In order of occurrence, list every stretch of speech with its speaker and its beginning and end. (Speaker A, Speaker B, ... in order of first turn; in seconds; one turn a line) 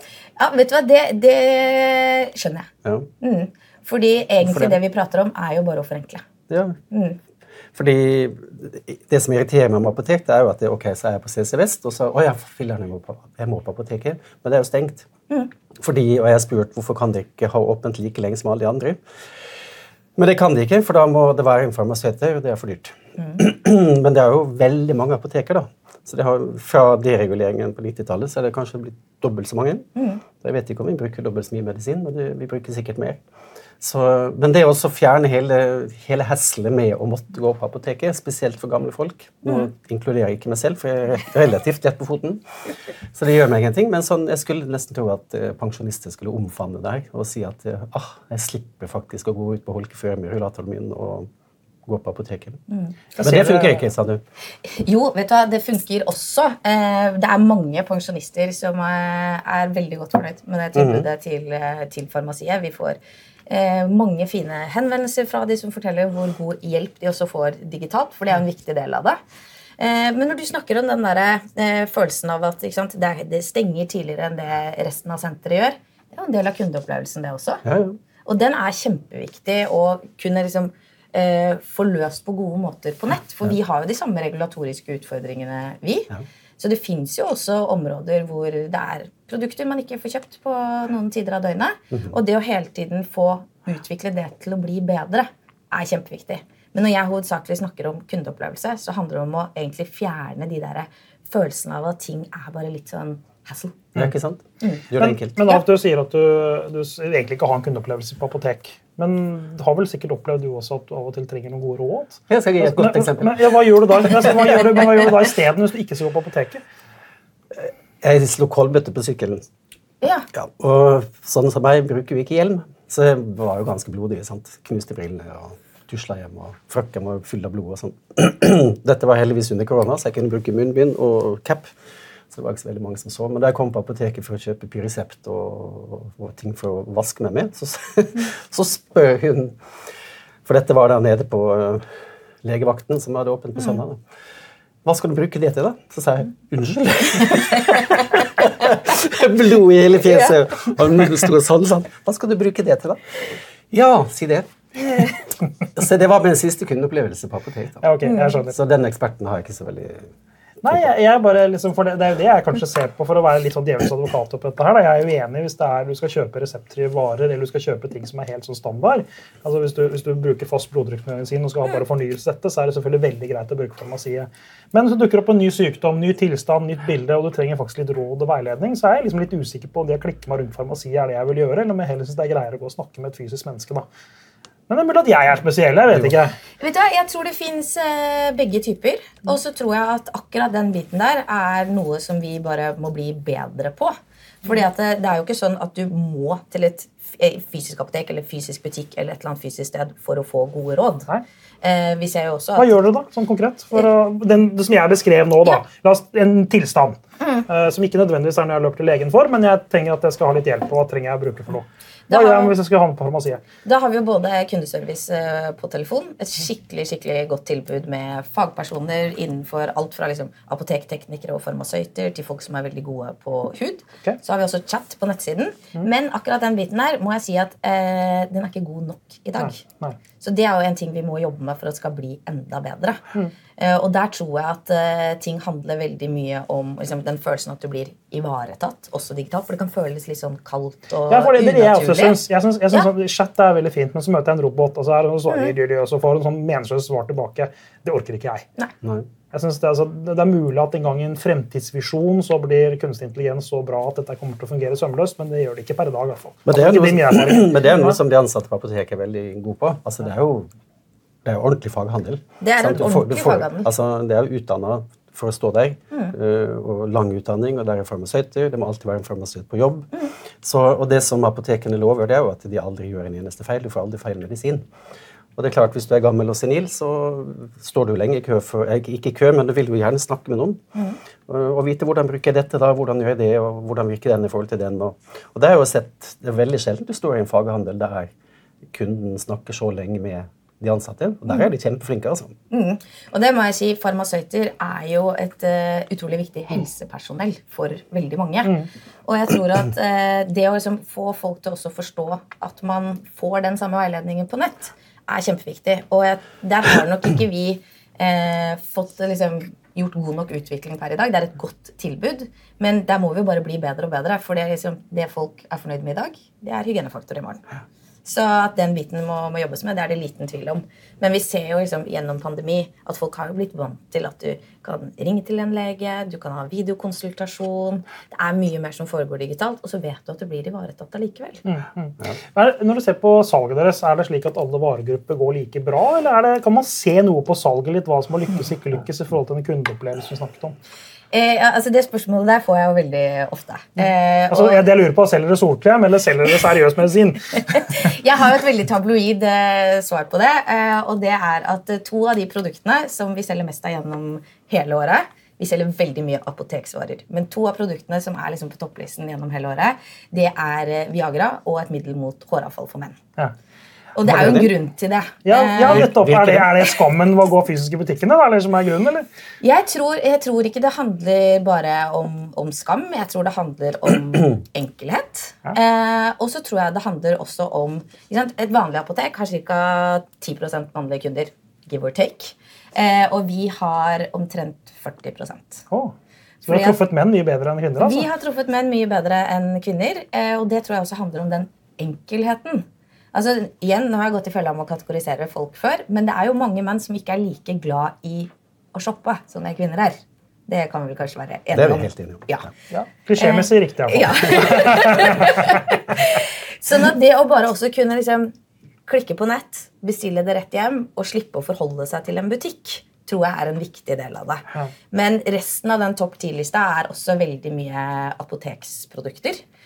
Speaker A: 0.4-6.2
Speaker B: 2.8-3.1
Speaker B: 4.4-4.8
Speaker B: 6.5-6.8
Speaker A: 6.9-7.2
Speaker B: 7.7-15.1
Speaker B: 15.7-19.0
Speaker B: 20.1-29.9
Speaker A: 29.9-30.2
Speaker B: 30.4-33.2
Speaker B: 33.8-42.4
Speaker B: 43.1-51.3
Speaker B: 51.9-52.6
Speaker A: 52.7-53.0
Speaker C: 53.2-53.8
Speaker B: 53.2-54.2
Speaker A: 54.6-69.2
Speaker B: 60.7-61.0
Speaker A: 69.8-77.6
Speaker B: 77.6-78.0
Speaker A: 78.2-103.8
Speaker B: 103.9-105.4
Speaker A: 104.6-104.8
Speaker C: 105.0-116.6
Speaker B: 112.3-113.5
Speaker B: 117.5-119.4
Speaker A: 120.0-120.3
Speaker B: 120.3-131.7
Speaker B: 132.3-139.6
Speaker B: 140.4-141.8
Speaker B: 142.4-144.0
Speaker B: 144.8-155.1
Speaker B: 155.7-157.9
Speaker C: 157.8-158.5
Speaker A: 158.0-158.4
Speaker B: 158.5-160.1
Speaker C: 160.6-183.8
Speaker C: 184.7-186.3
Speaker A: 186.6-201.1
Speaker A: 201.6-202.7
Speaker C: 202.6-213.4
Speaker A: 212.1-212.5
Speaker A: 213.6-229.6
Speaker C: 229.4-230.0
Speaker A: 230.2-233.0
Speaker A: 233.6-242.2
Speaker C: 241.1-248.4
Speaker B: 248.8-249.1
Speaker C: 249.3-258.0
Speaker B: 256.4-260.5
Speaker B: 261.2-274.6
Speaker A: 262.4-263.7
Speaker B: 275.4-280.6
Speaker B: 281.3-288.1
Speaker B: 288.7-292.3
Speaker A: 292.5-317.4
Speaker A: 318.0-331.4
Speaker C: 331.4-340.5
Speaker A: 341.1-344.6
Speaker C: 343.8-347.9
Speaker A: 347.5-363.0
Speaker A: 363.9-365.9
Speaker B: 364.0-364.5
Speaker C: 365.2-369.1
Speaker B: 365.7-366.5
Speaker A: 369.4-385.6
Speaker A: 386.4-386.8
Speaker C: 386.4-388.1
Speaker A: 387.8-402.5
Speaker B: 401.5-402.4
Speaker C: 402.7-405.6
Speaker A: 403.2-408.3
Speaker A: 408.9-419.4